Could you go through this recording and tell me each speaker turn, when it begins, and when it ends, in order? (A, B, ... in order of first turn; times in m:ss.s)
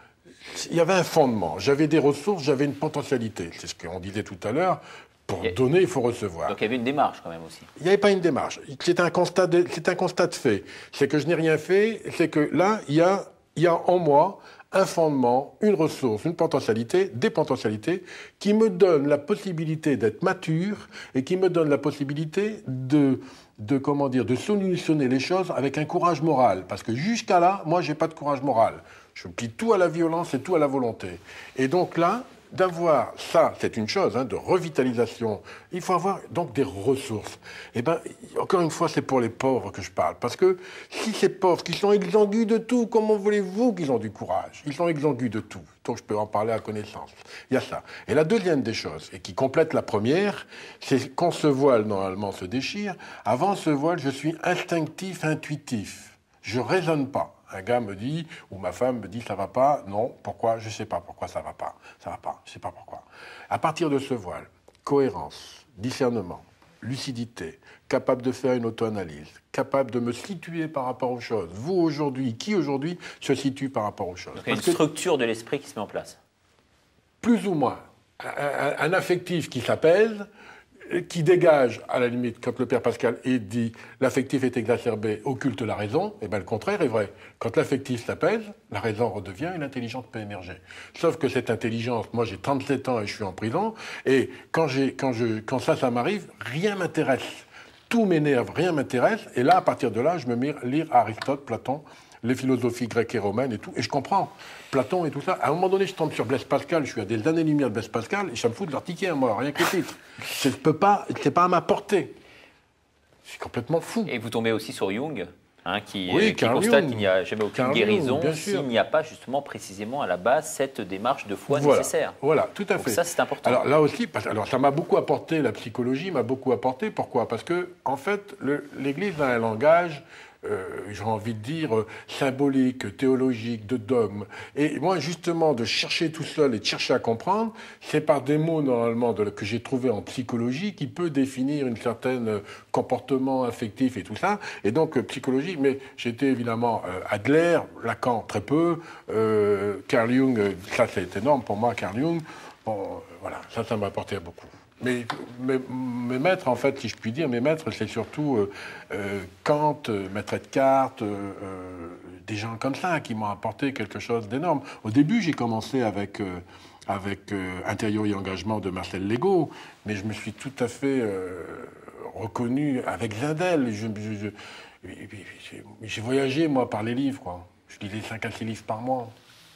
0:00.4-0:06.6 A
0:06.5-0:07.7 B
0:07.8-1:14.8 A
1:14.3-1:16.2 B
1:17.2-1:20.3 A
1:20.8-1:52.1 A
1:53.2-1:54.1 A
1:54.1-2:02.2 B
1:56.1-1:58.7 A
2:01.5-2:59.1 A
2:02.8-2:03.6 B